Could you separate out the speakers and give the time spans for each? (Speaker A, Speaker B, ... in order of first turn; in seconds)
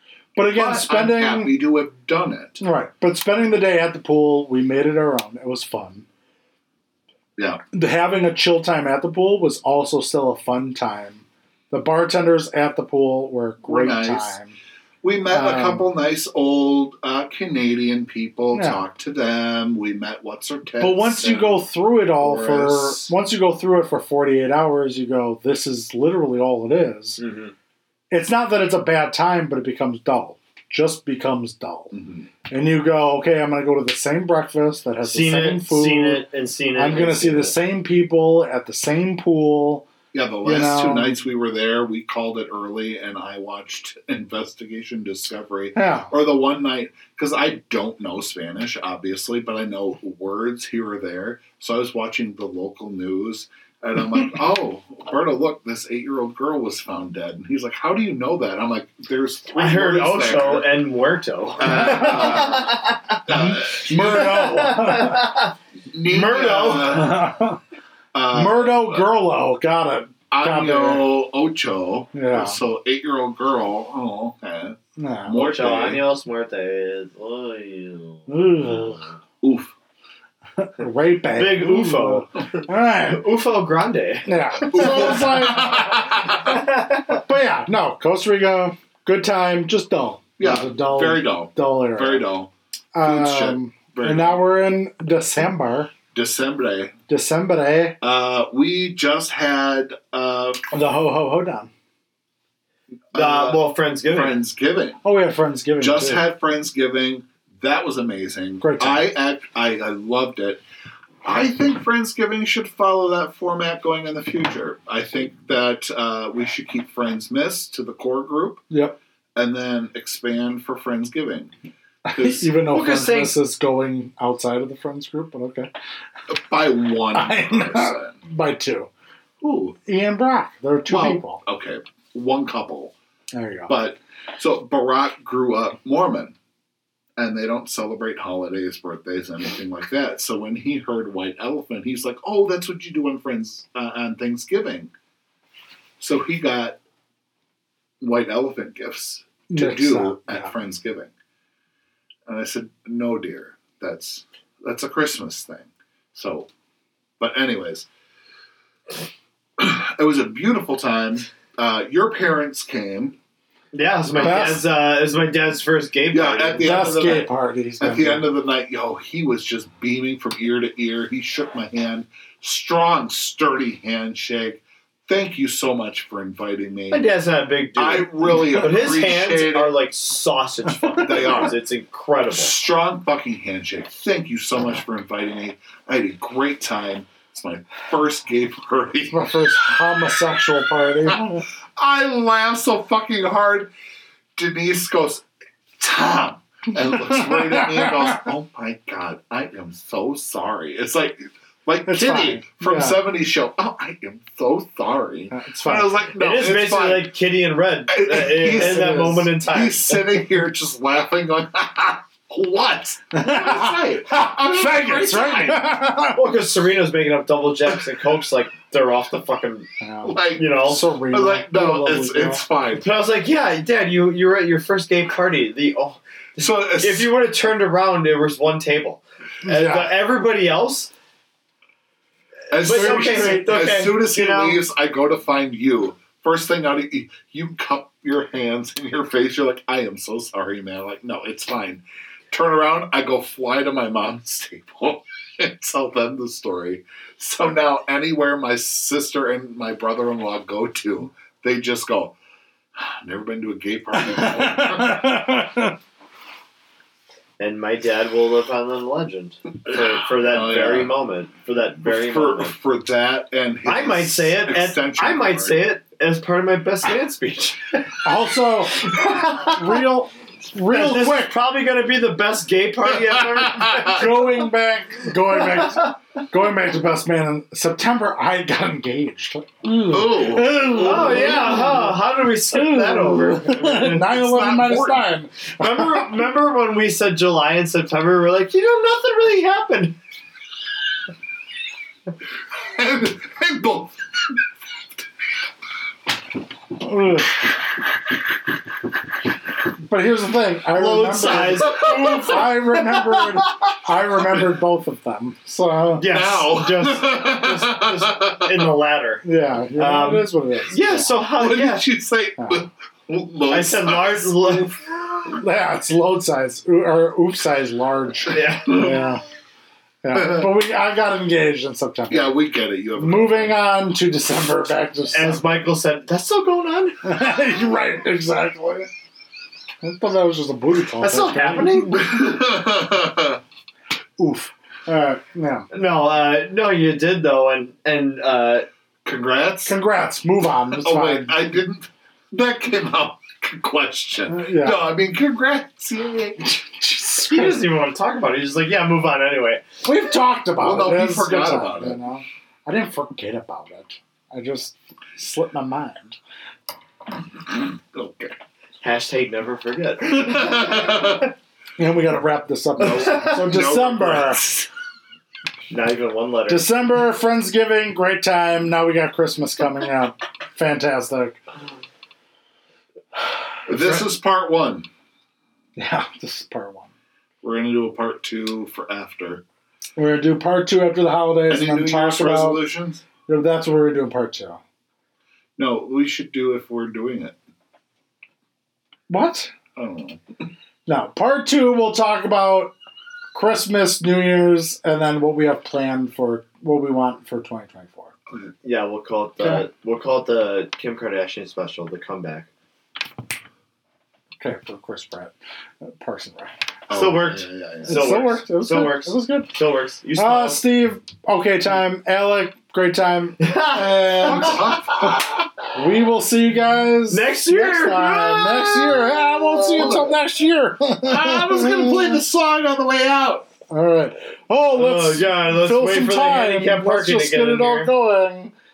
Speaker A: 0.3-1.5, 2.6-6.0, 7.7-14.5, 15.3-15.8, 18.5-18.8, 20.8-27.2, 28.1-31.9, 32.5-36.2, 36.8-39.9, 40.4-41.2, 45.7-46.1, 63.3-65.3, 66.8-67.6, 68.3-71.0, 72.1-72.6, 75.0-75.4, 78.3-79.1, 80.6-83.3, 84.3-86.5, 87.0-92.2, 92.9-95.9, 97.1-98.0, 100.7-101.7, 105.0-106.2, 108.6-109.1, 118.7-119.0, 122.1-125.7, 127.1-128.9, 129.8-131.4, 133.3-133.7, 149.5-150.5, 164.2-164.7, 166.6-168.3, 189.1-191.4, 197.0-198.2, 201.9-203.0, 205.3-205.9, 213.1-216.3, 219.8-222.4, 229.4-229.9, 232.6-233.5, 254.0-255.8, 268.0-271.3, 273.9-286.1, 296.8-297.5, 299.8-306.1, 309.2-311.1, 312.4-312.6, 315.2-319.2, 320.0-322.3, 323.0-325.4, 327.0-328.9, 329.8-331.9, 334.2-335.7, 339.7-341.3, 344.3-344.9, 346.4-347.6, 349.8-356.2, 361.8-364.4, 366.5-371.4, 373.7-374.0, 375.8-376.9, 380.0-382.6, 383.3-384.6, 389.1-389.5, 390.9-392.7, 393.3-398.1, 404.4-406.5, 407.9-409.5, 410.1-414.7, 415.7-422.2, 423.7-428.5
Speaker B: 0.5-2.6, 13.6-14.4, 15.0-21.6, 22.2-23.1, 31.9-32.3, 40.1-60.8, 61.6-64.7, 65.9-67.4, 68.1-69.1, 70.3-76.0, 79.4-79.7, 84.7-86.6, 90.4-92.5, 93.0-94.4, 96.1-96.9, 98.0-100.6, 103.1-105.0, 105.8-110.6, 111.2-118.6, 119.3-121.5, 122.1-122.5, 126.3-128.2, 129.4-129.8, 130.9-132.9, 133.7-136.3, 137.2-144.9, 146.0-146.8, 148.0-151.1, 152.3-156.5, 157.2-157.9, 159.6-163.2, 164.2-164.5, 166.1-177.1, 177.8-179.7, 181.0-181.6, 182.3-189.2, 191.8-193.7, 194.3-195.2, 195.8-207.1, 207.9-215.7, 220.0-222.9, 226.4-227.1, 232.5-252.2, 252.8-255.1, 259.7-260.9, 261.8-265.6, 272.9-274.0, 279.9-281.5, 283.9-285.0, 292.6-294.4, 306.1-308.6, 311.4-314.8, 318.6-319.0, 320.1-320.5, 322.1-323.6, 331.9-333.4, 339.0-339.7, 340.8-346.5, 350.6-352.0, 357.5-358.4, 360.1-361.3, 362.8-364.7, 373.7-374.9, 377.4-379.4, 381.5-383.0, 385.6-387.4, 389.7-390.2, 406.9-408.0, 413.8-415.4, 419.7-420.1, 421.0-423.4
Speaker C: 27.2-27.5, 35.0-37.5, 59.5-63.2, 64.1-65.5, 66.1-67.1, 75.3-78.7, 81.3-85.3, 86.2-87.2, 103.1-104.3, 122.7-123.3, 163.7-166.9, 176.9-182.5, 206.1-210.2, 216.1-219.7, 220.3-220.9, 222.8-230.9, 232.5-234.6, 257.4-262.5, 263.6-268.0, 268.8-269.9, 270.7-274.5, 275.3-275.9, 280.7-284.2, 285.6-290.0, 300.7-303.5, 305.9-311.9, 313.5-314.8, 318.3-319.0, 325.1-327.1, 331.0-332.1, 335.7-338.7, 347.2-349.6, 358.8-361.2, 365.7-366.7, 398.6-402.5, 406.9-410.6, 413.4-415.2, 417.1-420.1, 424.7-427.9